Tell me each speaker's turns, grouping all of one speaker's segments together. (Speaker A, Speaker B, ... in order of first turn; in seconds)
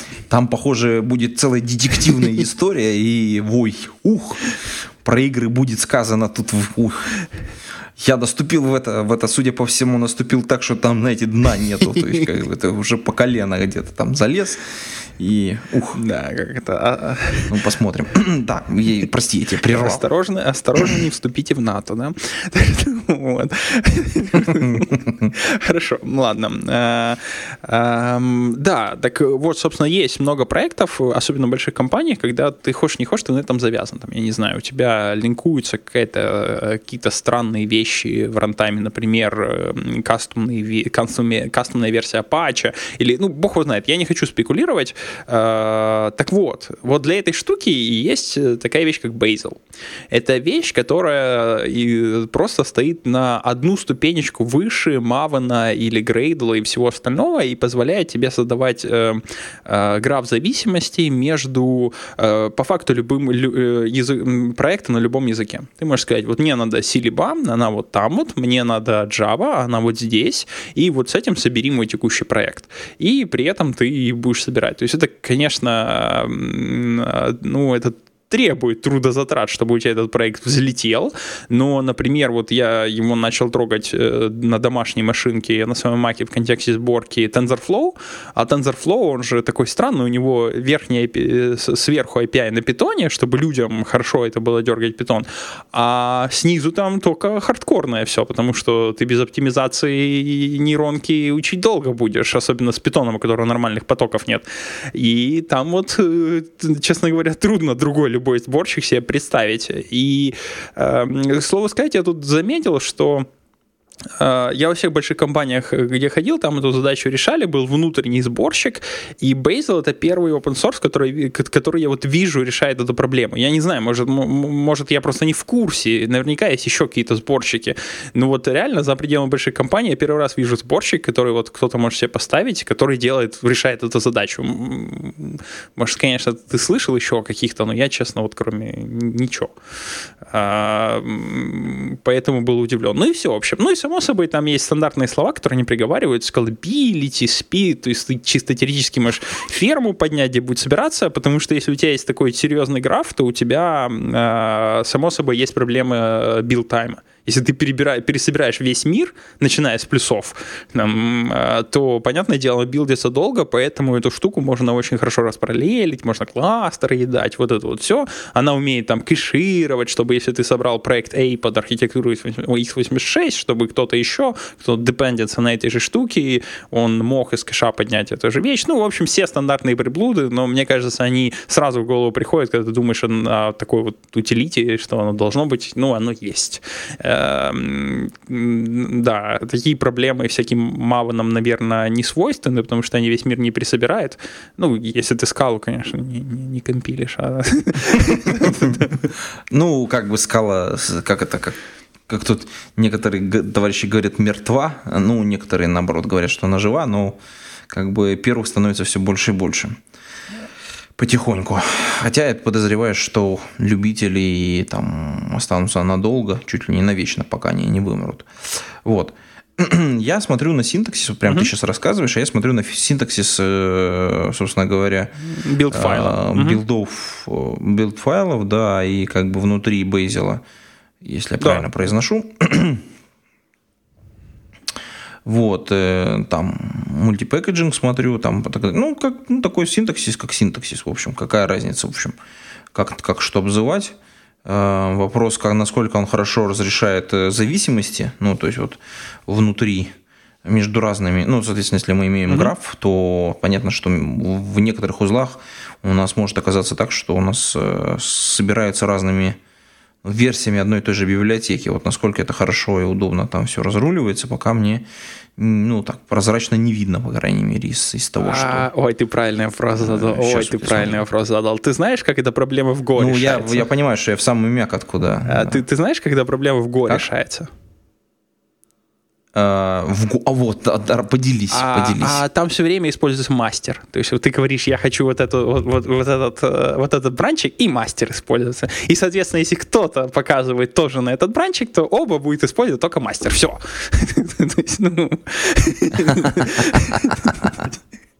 Speaker A: 0.3-7.1, 8.0-16.0, 17.5-20.0, 24.6-25.3, 199.5-201.6, 202.1-207.2, 207.7-209.8, 211.0-225.1, 225.7-230.4, 231.0-232.8, 235.2-242.2, 242.7-249.9, 250.4-259.4, 260.0-264.9, 265.4-268.7, 269.8-271.0, 273.0-275.6, 279.3-282.2
Speaker B: 15.9-17.5, 19.6-49.6, 50.1-113.3, 114.2-139.6, 140.3-199.0, 225.2-226.6, 231.4-231.7, 268.2-273.7, 275.3-277.5, 281.5-297.7